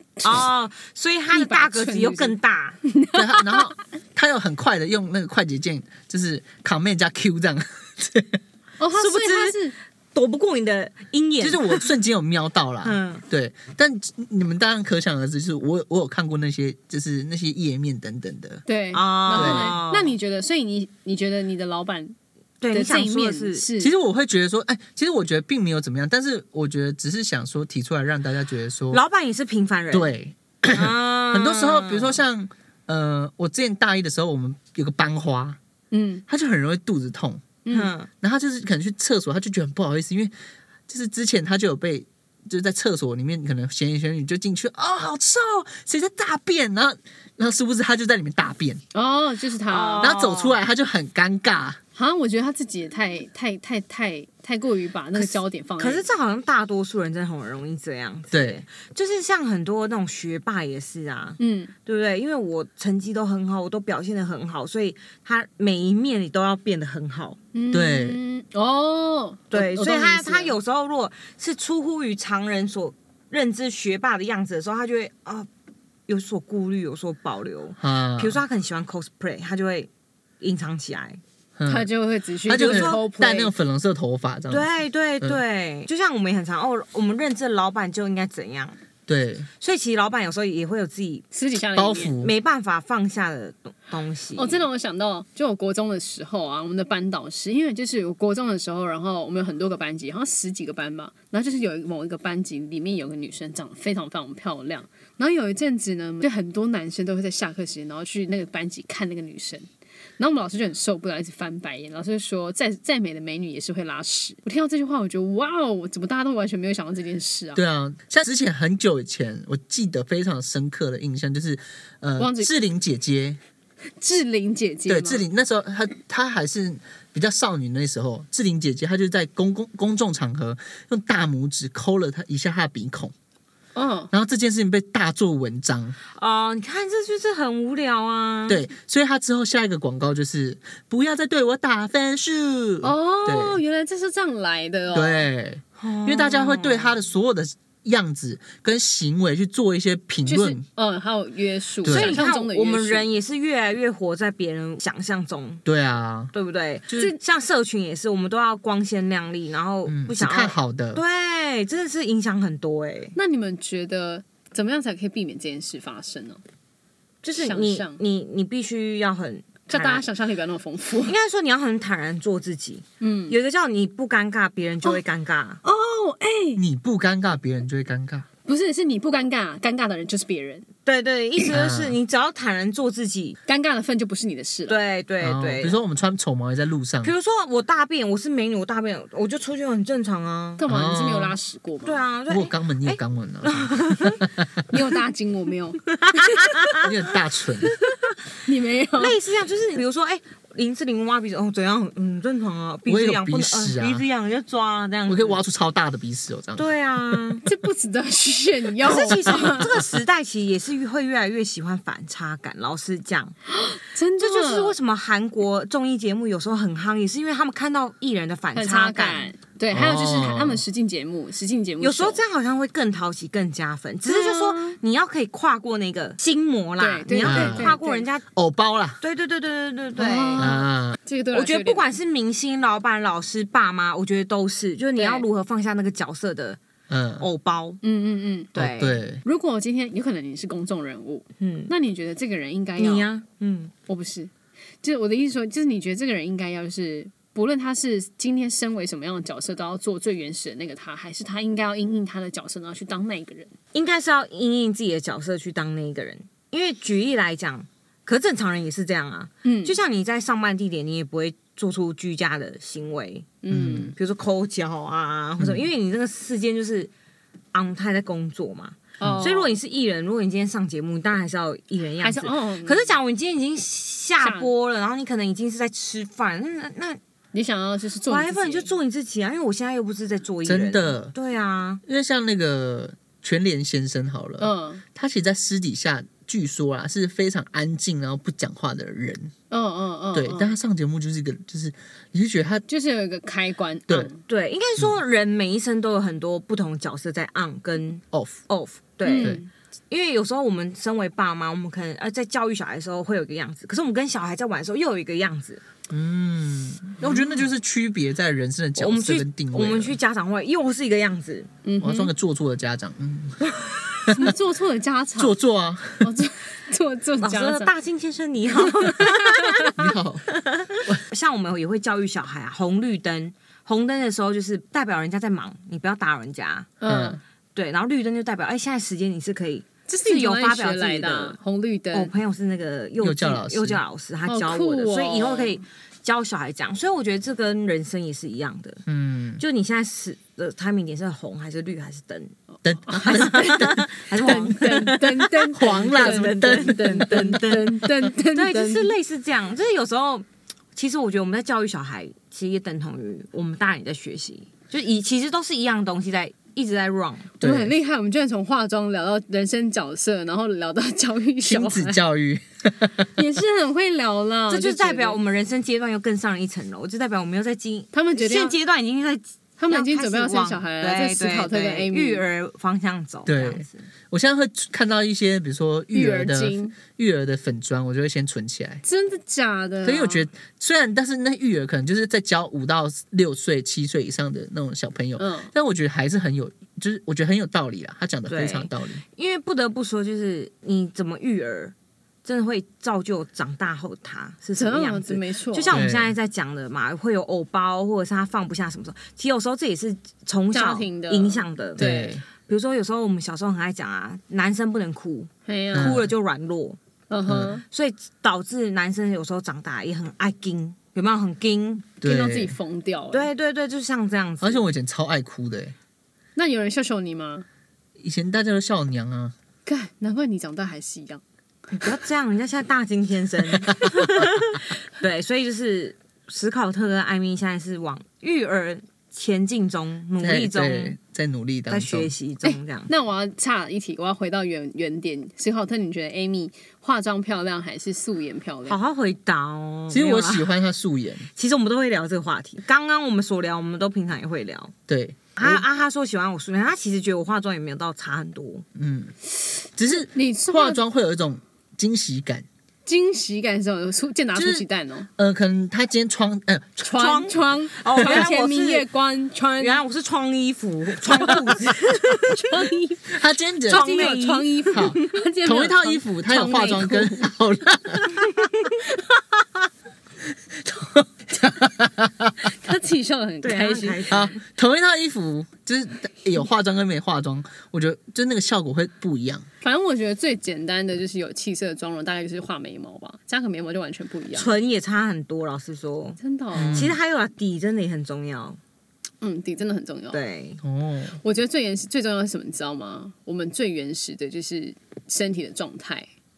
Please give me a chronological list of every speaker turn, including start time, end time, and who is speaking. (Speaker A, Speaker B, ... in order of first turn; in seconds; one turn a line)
Speaker A: 0.2-2.8
Speaker B: 1.3-3.8
Speaker C: 3.1-8.4
Speaker B: 8.8-9.7
Speaker A: 8.9-11.9
Speaker C: 11.4-18.6
Speaker A: 12.8-13.2
Speaker B: 18.7-22.2
Speaker A: 18.9-20.2
Speaker C: 19.3-19.8
Speaker A: 22.6-23.7
Speaker B: 22.7-23.9
Speaker C: 23.8-29.0
Speaker A: 28.9-30.1
Speaker C: 29.9-35.6
Speaker A: 30.7-32.2
Speaker B: 35.9-36.2
Speaker C: 36.3-37.6
Speaker B: 37.6-37.9
Speaker A: 37.7-38.1
Speaker C: 38.2-40.3
Speaker C: 40.9-48.8
Speaker B: 48.9-50.1
Speaker A: 49.7-50.6
Speaker C: 50.0-51.8
Speaker B: 52.0-56.1
Speaker A: 55.1-67.4
Speaker C: 58.3-58.6
Speaker B: 61.4-61.7
Speaker B: 67.5-69.5
Speaker C: 67.7-68.2
Speaker A: 69.5-75.5
Speaker C: 69.5-70.5
Speaker A: 76.1-79.9
Speaker C: 77.8-78.4
Speaker A: 80.4-81.2
Speaker C: 81.6-81.9
Speaker B: 81.7-83.5
Speaker C: 82.5-84.7
Speaker A: 82.5-83.0
Speaker A: 84.5-88.8
Speaker C: 89.1-89.5
Speaker A: 89.6-91.3
Speaker B: 91.3-92.1
Speaker C: 91.8-92.3
Speaker A: 92.2-94.7
Speaker B: 94.4-109.7
Speaker B: 110.2-117.6
Speaker C: 117.5-123.4
Speaker B: 122.2-122.5
Speaker B: 124.0-125.2
Speaker C: 124.9-133.1
Speaker B: 133.8-134.1
Speaker C: 134.1-136.0
Speaker A: 136.2-138.6
Speaker C: 138.5-143.6
Speaker B: 142.8-145.2
Speaker C: 144.9-150.6
Speaker A: 145.8-147.0
Speaker B: 150.3-153.1
Speaker C: 151.8-152.2
Speaker A: 151.9-155.6
Speaker C: 155.7-156.3
Speaker A: 156.3-163.2
Speaker C: 159.9-161.0
Speaker B: 163.2-166.4
Speaker A: 167.2-170.1
Speaker B: 167.4-168.0
Speaker B: 169.7-171.2
Speaker A: 171.1-175.6
Speaker B: 173.0-173.4
Speaker B: 175.6-176.6
Speaker C: 176.6-178.3
Speaker B: 178.5-180.7
Speaker A: 180.8-183.4
Speaker C: 181.5-182.0
Speaker B: 183.5-184.8
Speaker A: 184.7-185.8
Speaker C: 185.2-187.1
Speaker A: 187.0-190.6
Speaker B: 190.6-192.0
Speaker C: 190.7-191.4
Speaker A: 191.9-194.2
Speaker C: 192.3-194.5
Speaker B: 194.7-196.6
Speaker A: 195.9-196.9
Speaker C: 196.8-197.7
Speaker B: 197.9-199.2
Speaker A: 199.0-205.4
Speaker C: 202.9-204.1
Speaker C: 205.1-207.2
Speaker A: 206.6-207.4
Speaker B: 207.4-209.9
Speaker A: 208.8-213.4
Speaker B: 213.5-214.7
Speaker A: 214.2-219.3
Speaker B: 218.6-222.2
Speaker C: 219.7-220.6
Speaker A: 221.8-228.2
Speaker B: 224.1-224.8
Speaker B: 226.8-228.0
Speaker C: 227.2-227.7
Speaker C: 228.3-229.0
Speaker A: 229.0-230.5
Speaker B: 230.0-231.9
Speaker C: 230.4-231.0
Speaker A: 231.3-236.6
Speaker B: 235.0-235.2
Speaker C: 236.9-237.3
Speaker A: 237.2-237.8
Speaker B: 237.8-238.5
Speaker A: 238.6-239.0
Speaker C: 238.6-239.2
Speaker B: 239.2-243.1
Speaker A: 241.4-241.7
Speaker A: 242.8-243.7
Speaker B: 243.9-244.3
Speaker B: 244.8-253.5
Speaker A: 253.7-263.4
Speaker B: 259.4-259.8
Speaker B: 263.4-263.9
Speaker C: 263.5-263.9
Speaker A: 264.0-266.9
Speaker C: 265.4-265.6
Speaker A: 267.5-277.0
Speaker B: 269.0-269.6
Speaker B: 272.0-273.0
Speaker B: 274.2-274.5
Speaker B: 277.3-278.7
Speaker A: 278.1-281.8
Speaker C: 280.4-281.1
Speaker C: 281.8-289.3
Speaker B: 284.4-284.8
Speaker B: 289.5-290.5
Speaker C: 290.1-292.6
Speaker B: 292.7-294.2
Speaker A: 294.3-305.6
Speaker C: 298.1-298.4
Speaker B: 299.0-299.5
Speaker C: 299.2-299.4
Speaker C: 305.9-310.0
Speaker A: 308.8-311.5
Speaker B: 311.6-312.1
Speaker C: 311.8-314.3
Speaker B: 314.1-315.4
Speaker C: 315.2-316.1
Speaker B: 316.0-317.7
Speaker A: 317.2-326.7
Speaker B: 318.6-319.7
Speaker C: 319.7-320.2
Speaker B: 326.8-327.2
Speaker C: 326.9-327.2
Speaker A: 327.6-331.4
Speaker B: 329.9-332.1
Speaker A: 331.9-338.8
Speaker C: 333.0-333.8
Speaker B: 334.3-335.6
Speaker C: 338.9-339.4
Speaker A: 339.4-342.3
Speaker C: 342.6-344.4
Speaker B: 342.9-348.9
Speaker A: 343.0-357.3
Speaker C: 345.5-347.4
Speaker B: 357.4-362.0
Speaker C: 357.4-357.7
Speaker C: 361.4-363.1
Speaker B: 363.1-365.2
Speaker A: 364.5-373.9
Speaker B: 367.9-368.6
Speaker B: 369.6-372.2
Speaker C: 373.3-378.8
Speaker B: 375.9-376.8
Speaker B: 378.9-380.3
Speaker C: 379.9-389.0
Speaker B: 385.2-385.5
Speaker A: 388.3-391.7
Speaker A: 392.2-401.8
Speaker B: 394.6-395.8
Speaker C: 395.7-396.1
Speaker B: 400.5-402.2
Speaker C: 401.8-402.2
Speaker A: 402.4-406.8
Speaker B: 405.5-406.0
Speaker C: 405.7-406.1
Speaker B: 407.1-407.6
Speaker C: 407.3-407.6
Speaker A: 407.7-411.9
Speaker C: 412.0-412.6
Speaker B: 412.0-413.3
Speaker A: 413.1-414.6
Speaker C: 414.4-415.8
Speaker B: 416.4-417.5
Speaker C: 418.0-419.4
Speaker B: 419.7-421.2
Speaker A: 421.8-431.0
Speaker C: 430.2-432.1
Speaker A: 431.7-432.9
Speaker B: 432.4-438.8
Speaker A: 438.7-440.5
Speaker C: 439.9-441.3
Speaker A: 441.4-444.7
Speaker C: 444.9-445.6
Speaker A: 445.4-448.7
Speaker C: 448.8-449.1
Speaker C: 449.8-452.5
Speaker B: 450.1-450.8
Speaker B: 452.9-455.1
Speaker C: 454.4-454.7
Speaker C: 455.2-456.9
Speaker B: 456.8-459.8
Speaker A: 456.9-458.9
Speaker C: 458.0-458.3
Speaker A: 459.6-462.5
Speaker B: 461.1-467.3
Speaker C: 463.1-464.2
Speaker A: 463.7-465.1
Speaker C: 464.7-468.4
Speaker C: 470.3-472.4
Speaker B: 472.4-474.2
Speaker A: 473.4-474.4
Speaker C: 474.1-479.5
Speaker B: 479.6-484.5
Speaker A: 484.3-488.6
Speaker B: 486.2-486.9
Speaker C: 486.5-487.0
Speaker B: 489.2-490.2
Speaker A: 490.1-490.6
Speaker C: 490.6-491.2
Speaker B: 491.2-496.1